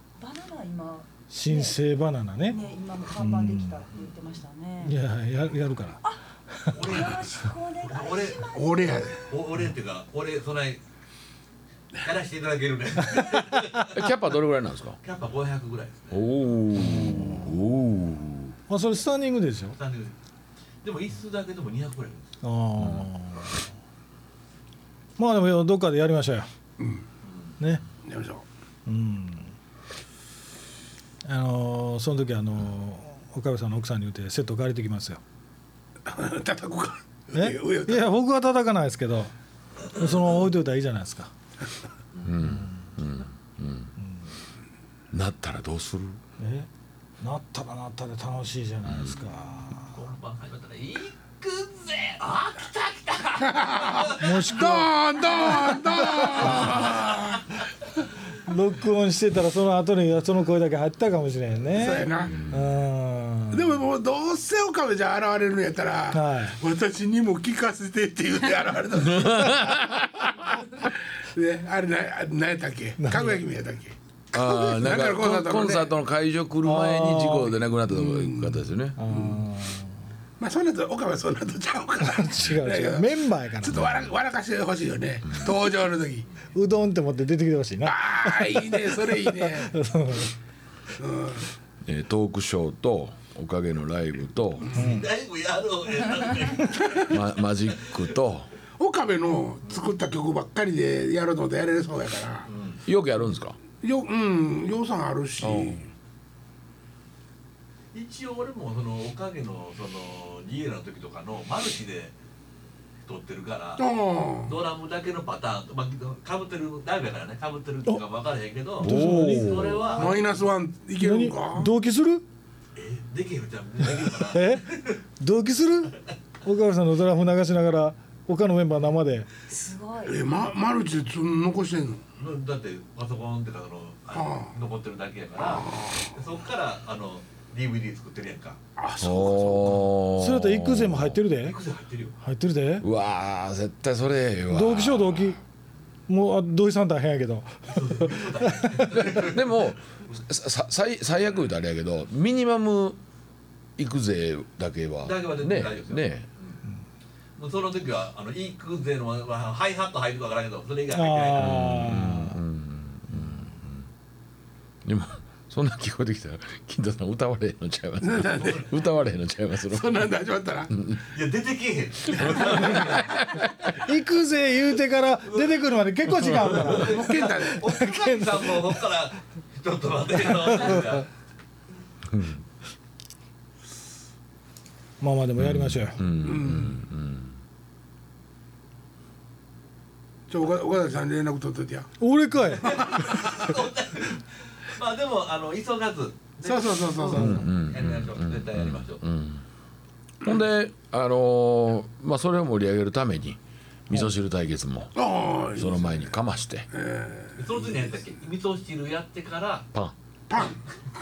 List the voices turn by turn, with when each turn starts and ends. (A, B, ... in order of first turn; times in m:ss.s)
0:00.2-0:01.8 A
0:01.3-0:02.6 B
0:02.4-0:05.0 A
0:03.2-0:03.8 B
0:04.8-0:06.0 B
0:06.5-0:06.8 B
0:06.7-0:07.2 C
0:06.7-0:09.0 A
0:07.8-0:08.5 C
0:08.5-0:09.3 D
0:09.3-0:10.8 C
0:12.0-0:13.9 C
0:13.1-0:13.4 B
0:13.9-0:15.0 E
0:15.0-0:16.3 C
0:16.1-0:18.6 E
0:16.7-0:17.6 B
0:18.7-0:19.8 B
0:19.8-0:20.2 C
0:20.8-0:22.3 C
0:22.4-0:23.6 B
0:22.8-0:23.1 E
0:25.2-0:26.5 B
0:26.8-0:27.1 D
0:27.2-0:27.5 C
0:28.0-0:28.4 D
0:28.9-0:29.5 B
0:31.2-0:35.2 B
0:36.1-0:38.1 D
0:37.3-0:39.3 B
0:39.9-0:41.3 B
0:42.2-0:43.9 E
0:42.4-0:42.9 B
0:45.1-0:46.2 E
0:46.4-0:46.7 B
0:47.2-0:50.0 B
0:48.9-0:49.2 E
0:49.9-0:54.7 C
0:53.5-0:57.5 D
0:54.2-0:56.8 B
0:56.4-0:57.0 C
0:58.4-1:03.7 B
1:01.7-1:02.4 D
1:03.5-1:09.8 D
1:06.1-1:06.6 B
1:09.0-1:10.5 E
1:10.8-1:15.9 D
1:13.0-1:13.4 B
1:14.3-1:19.0 E
1:16.6-1:17.6 B
1:17.9-1:19.4 D
1:19.0-1:19.9 B
1:20.4-1:26.3 D
1:22.0-1:23.9 B
1:23.8-1:24.0 E
1:26.5-1:30.3 B
1:27.8-1:29.7 D
1:31.0-1:31.5 D
1:31.8-1:34.8 E
1:34.7-1:35.0 D
1:34.7-1:38.0 C
1:34.8-1:35.1 B
1:37.1-1:38.5 E
1:38.8-1:42.5 D
1:42.5-1:42.8 C
1:42.9-1:43.6 E
1:43.8-1:45.9 D
1:45.4-1:45.8 E
1:47.9-1:52.1 C
1:53.1-1:53.9 C
1:53.8-1:54.6 D
1:54.4-2:00.2 C
1:58.8-2:00.0 B
1:58.8-1:59.8 E
1:59.9-2:01.7 D
2:01.0-2:02.2 B
2:02.8-2:05.0 C
2:03.9-2:09.3 B
2:09.5-2:10.2 A
2:10.0-2:12.0 D
2:12.2-2:18.6 C
2:14.1-2:14.6 D
2:15.4-2:16.2 D
2:18.8-2:19.9 D
2:19.0-2:21.2 E
2:20.1-2:21.6 B
2:21.4-2:22.2 C
2:22.2-2:22.8 B
2:22.8-2:25.4 E
2:24.5-2:25.4 B
2:26.1-2:29.1 B
2:27.7-2:29.7 C
2:29.0-2:33.0 E
2:33.8-2:36.3 E
2:35.0-2:36.6 C
2:37.4-2:41.7 C
2:40.9-2:42.4 B
2:41.4-2:43.8 E
2:44.8-2:50.1 E
2:48.0-2:48.7 D
2:49.7-2:50.7 D
2:50.7-2:51.0 E
2:51.1-2:53.2 C
2:52.2-2:53.4 E
2:53.7-2:58.8 B
2:55.3-2:55.5 C
2:56.2-2:56.7 E
2:56.4-3:01.1 C
2:56.7-2:57.6 D
3:00.3-3:01.0 B
3:02.1-3:02.4 E
3:05.0-3:06.1 B
3:05.4-3:07.4 E
3:06.2-3:06.8 D
3:10.3-3:11.9 D
3:12.0-3:13.2 B
3:12.5-3:19.0 C
3:16.4-3:17.5 D
3:17.1-3:19.4 E
3:20.2-3:25.0 E
3:25.0-3:26.1 D
3:25.5-3:26.7 E
3:26.7-3:28.0 D
3:27.4-3:29.7 C
3:30.3-3:30.6 D